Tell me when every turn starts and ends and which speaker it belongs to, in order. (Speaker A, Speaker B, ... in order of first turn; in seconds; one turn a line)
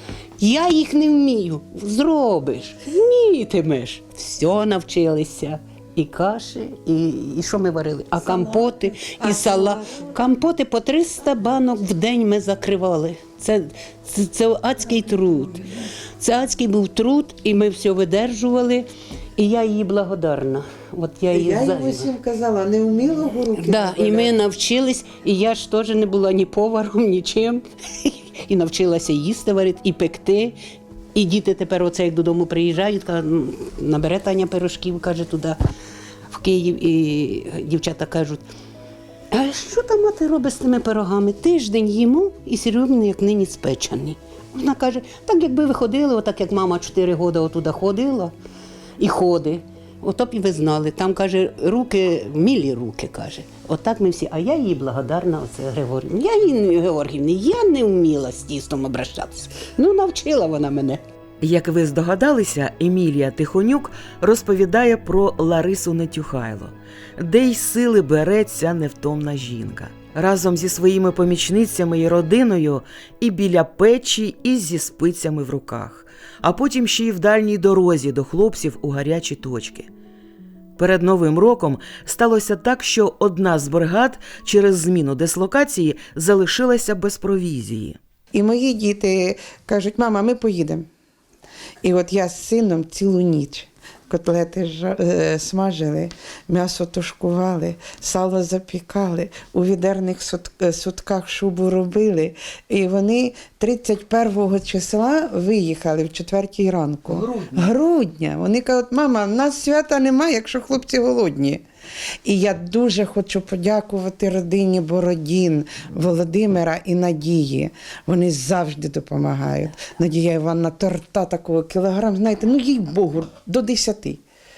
Speaker A: 0.4-22.1
Speaker B: 21.3-24.3
Speaker A: 23.6-30.6
Speaker A: 31.1-35.6
Speaker A: 36.3-38.5
Speaker A: 39.3-48.3
Speaker A: 49.0-61.0
Speaker C: 61.4-79.9
Speaker C: 80.8-88.0
Speaker B: 88.3-90.9
Speaker B: 91.8-111.6
Speaker C: 107.1-107.7
Speaker B: 112.2-124.2